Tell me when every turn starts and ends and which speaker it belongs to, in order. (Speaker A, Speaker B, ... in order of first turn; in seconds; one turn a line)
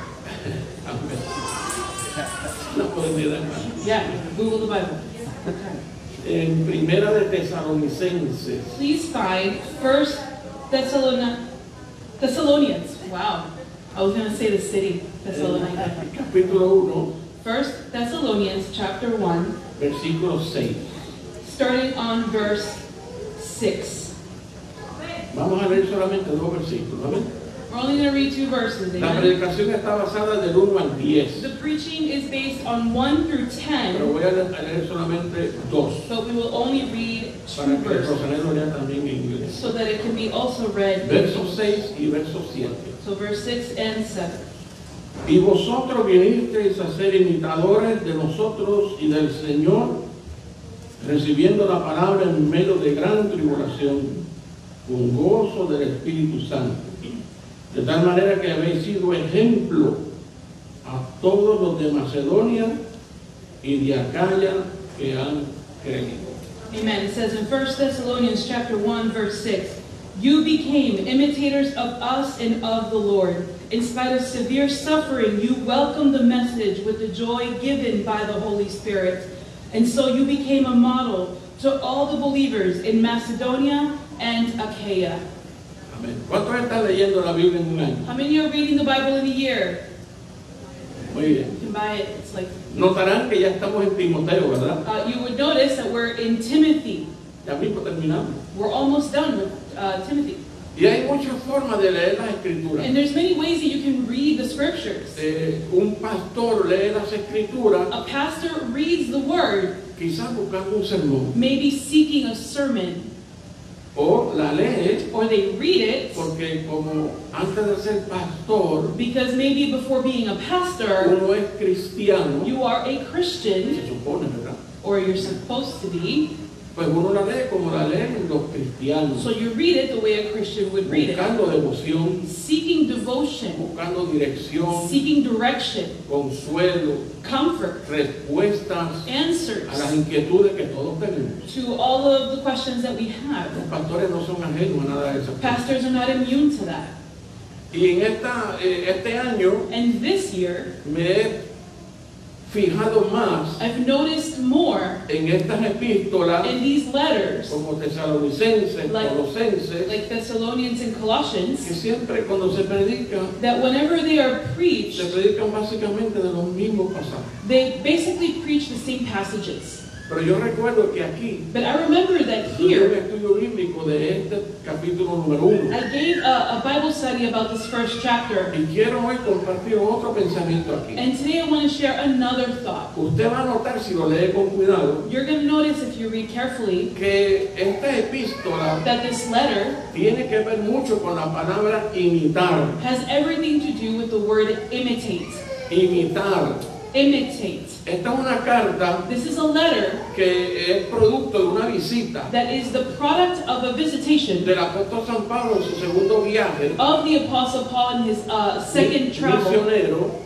Speaker A: 0.2-1.3
Speaker A: 2.7-3.8
Speaker B: 3.8-5.0
Speaker A: 6.2-8.8
Speaker B: 8.7-11.4
Speaker B: 12.2-16.0
Speaker A: 15.3-17.1
Speaker B: 17.4-19.6
Speaker A: 19.8-20.9
Speaker B: 21.4-22.8
Speaker B: 23.4-24.1
Speaker A: 25.3-27.3
Speaker B: 27.7-29.3
Speaker A: 29.0-31.5
Speaker B: 31.3-34.1
Speaker A: 33.9-36.1
Speaker B: 36.1-38.2
Speaker A: 37.5-39.7
Speaker B: 39.5-41.8
Speaker A: 41.0-42.9
Speaker B: 43.0-44.4
Speaker A: 45.2-50.0
Speaker A: 51.0-54.2
Speaker A: 54.9-57.1
Speaker A: 57.7-60.0
Speaker A: 60.8-62.7
Speaker A: 63.6-66.3
Speaker B: 66.7-85.2
Speaker A: 85.9-88.0
Speaker B: 88.0-89.8
Speaker A: 91.1-91.5
Speaker B: 91.5-92.5
Speaker A: 92.7-94.8
Speaker B: 94.8-97.1
Speaker A: 97.4-98.4
Speaker B: 98.5-100.4
Speaker A: 100.7-102.9
Speaker B: 102.8-105.2
Speaker A: 105.2-107.9
Speaker B: 107.9-109.8
Speaker A: 110.0-111.3
Speaker B: 111.3-113.1
Speaker A: 113.9-115.0
Speaker B: 115.1-116.2
Speaker A: 116.1-118.9
Speaker B: 118.9-121.1
Speaker A: 121.0-122.5
Speaker B: 122.4-123.8
Speaker A: 123.7-124.6
Speaker B: 124.8-126.3
Speaker A: 126.7-129.3
Speaker B: 129.1-131.3
Speaker A: 130.8-132.2
Speaker B: 132.2-133.6
Speaker A: 133.6-135.0
Speaker B: 134.7-136.0
Speaker A: 136.1-137.1
Speaker B: 137.2-137.8
Speaker A: 137.8-139.1
Speaker B: 139.0-140.0
Speaker A: 139.7-141.5
Speaker B: 141.5-143.6
Speaker A: 143.5-145.6
Speaker B: 145.4-146.9
Speaker A: 147.7-149.7
Speaker B: 149.7-150.7
Speaker A: 150.8-151.4
Speaker A: 152.4-153.6
Speaker B: 153.6-155.0
Speaker A: 155.1-156.5
Speaker B: 156.4-157.6
Speaker A: 157.5-160.0
Speaker B: 158.8-159.1
Speaker B: 159.8-161.7
Speaker A: 161.6-163.3
Speaker B: 163.4-165.1
Speaker A: 164.9-167.3
Speaker B: 167.4-169.8
Speaker A: 170.1-171.5
Speaker B: 171.5-172.9
Speaker A: 172.5-175.8
Speaker B: 175.7-178.5
Speaker A: 178.5-181.0
Speaker B: 180.9-182.9
Speaker A: 182.9-185.0
Speaker B: 185.0-186.9
Speaker A: 186.9-188.8
Speaker B: 188.8-189.8
Speaker A: 189.9-192.8
Speaker B: 192.8-195.4
Speaker A: 195.7-196.6
Speaker B: 196.9-197.8
Speaker A: 197.8-199.0
Speaker B: 199.0-200.0
Speaker A: 200.1-202.3
Speaker B: 202.3-204.5
Speaker A: 204.4-206.8
Speaker B: 206.8-209.6
Speaker A: 208.7-210.1